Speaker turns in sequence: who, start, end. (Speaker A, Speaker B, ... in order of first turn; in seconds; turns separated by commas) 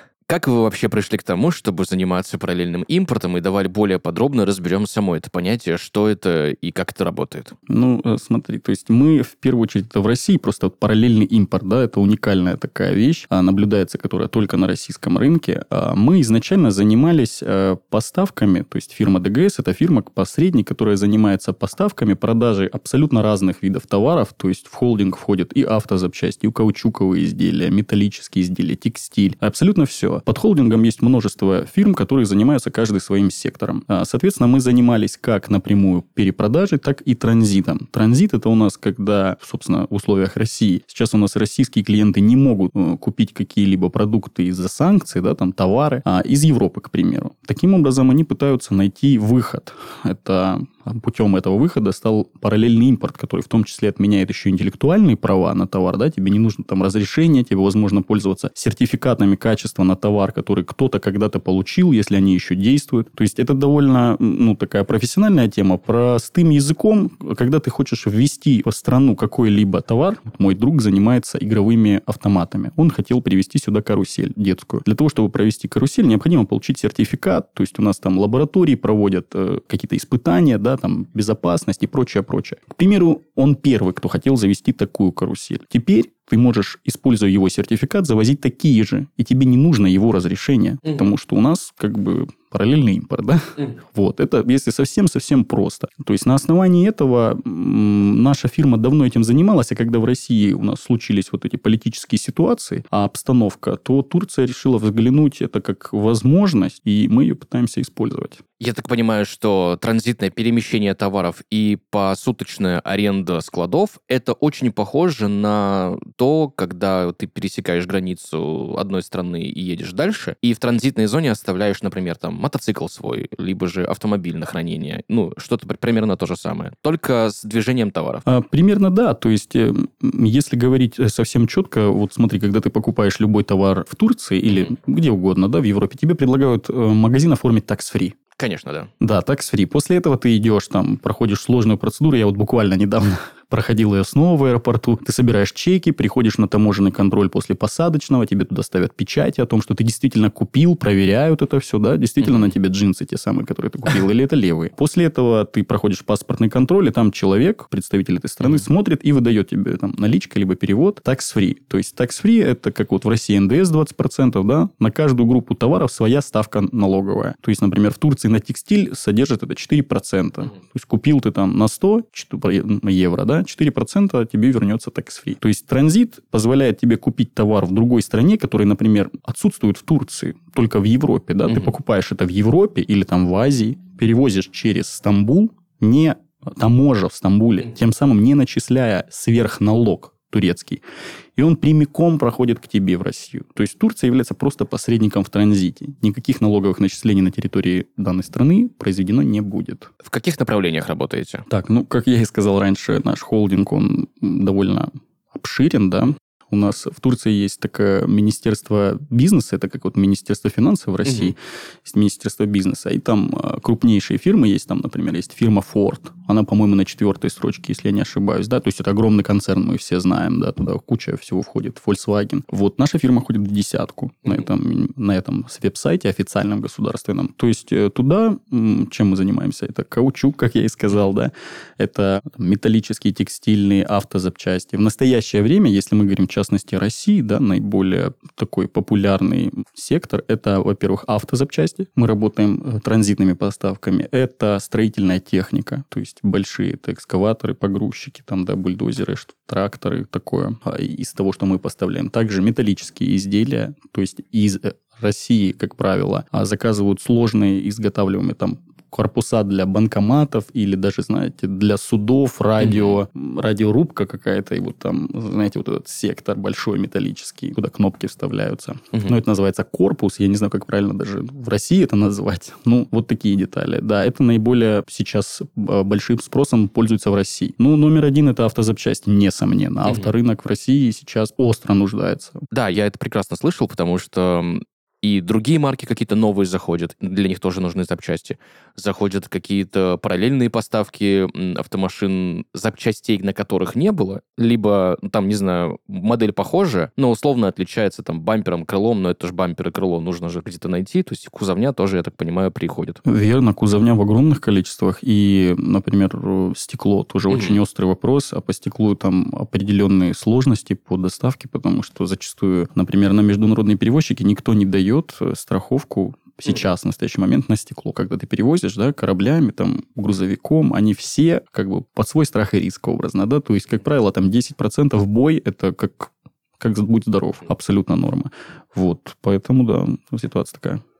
Speaker A: 0.3-7.5, Speaker B: 7.7-108.4, Speaker A: 108.6-128.2, Speaker B: 128.2-138.2, Speaker A: 138.4-138.9, Speaker B: 139.0-190.8, Speaker A: 152.2-152.5, Speaker B: 191.3-199.9, Speaker A: 200.0-201.5, Speaker B: 201.5-282.4, Speaker A: 262.6-263.0, Speaker A: 279.8-280.1, Speaker A: 282.5-303.0, Speaker B: 303.0-330.8, Speaker A: 307.3-307.6